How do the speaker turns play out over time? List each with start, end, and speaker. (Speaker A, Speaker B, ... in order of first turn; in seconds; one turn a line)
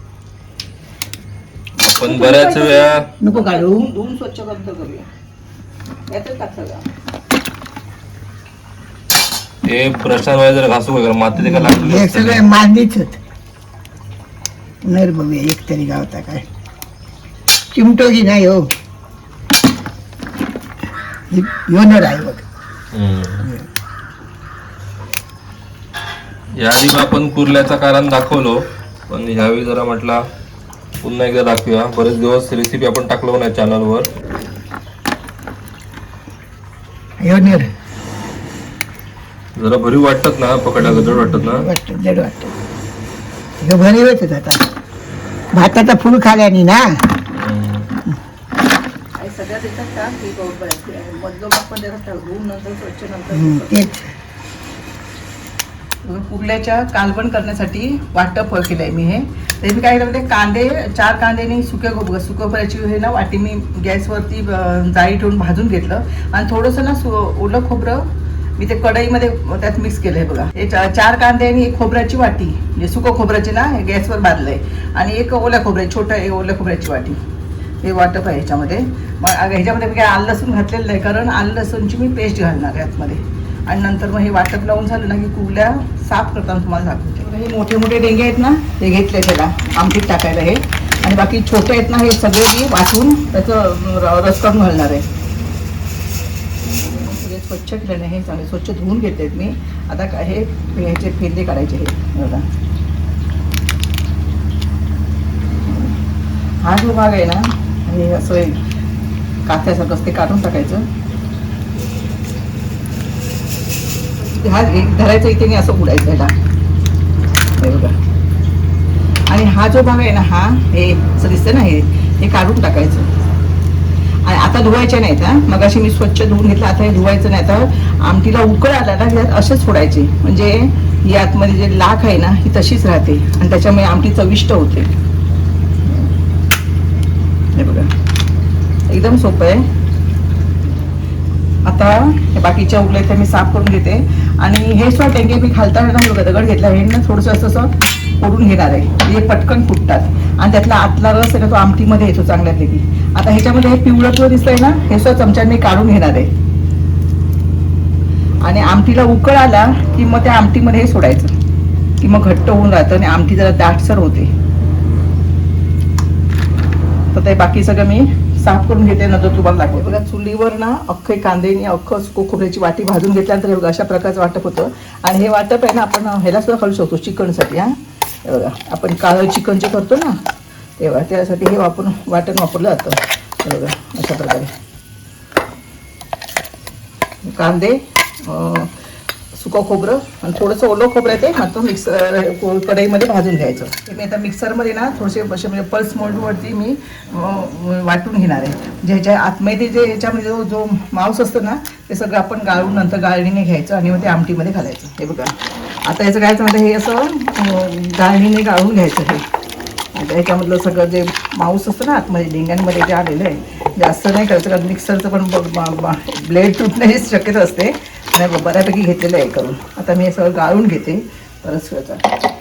Speaker A: 1.8-3.0
Speaker B: 1.9-5.1
Speaker C: 3.2-3.9
Speaker B: 6.1-6.9
Speaker A: 9.7-12.4
Speaker C: 11.4-13.2
Speaker C: 14.9-16.4
Speaker C: 17.7-18.7
Speaker C: 21.3-22.4
Speaker A: 22.9-23.5
Speaker A: 26.6-30.2
Speaker A: 31.0-34.1
Speaker C: 37.2-37.7
Speaker A: 39.6-41.7
Speaker C: 40.8-42.5
Speaker C: 43.6-44.6
Speaker C: 45.5-46.9
Speaker A: 47.3-47.9
Speaker B: 49.2-53.9
Speaker C: 53.3-54.1
Speaker B: 56.0-68.0
Speaker B: 68.6-77.2
Speaker B: 77.8-95.0
Speaker B: 96.8-102.4
Speaker B: 106.6-108.6
Speaker B: 109.5-110.8
Speaker B: 114.2-116.3
Speaker B: 117.6-117.9
Speaker B: 119.3-123.1
Speaker B: 124.3-134.9
Speaker B: 137.6-137.9
Speaker B: 138.9-139.6
Speaker B: 141.7-156.3
Speaker B: 158.4-161.3
Speaker B: 162.0-164.3
Speaker B: 167.1-177.7
Speaker B: 178.3-180.1
Speaker B: 180.8-184.5
Speaker B: 187.3-188.7
Speaker B: 189.3-205.3
Speaker B: 205.9-209.2
Speaker B: 209.9-222.0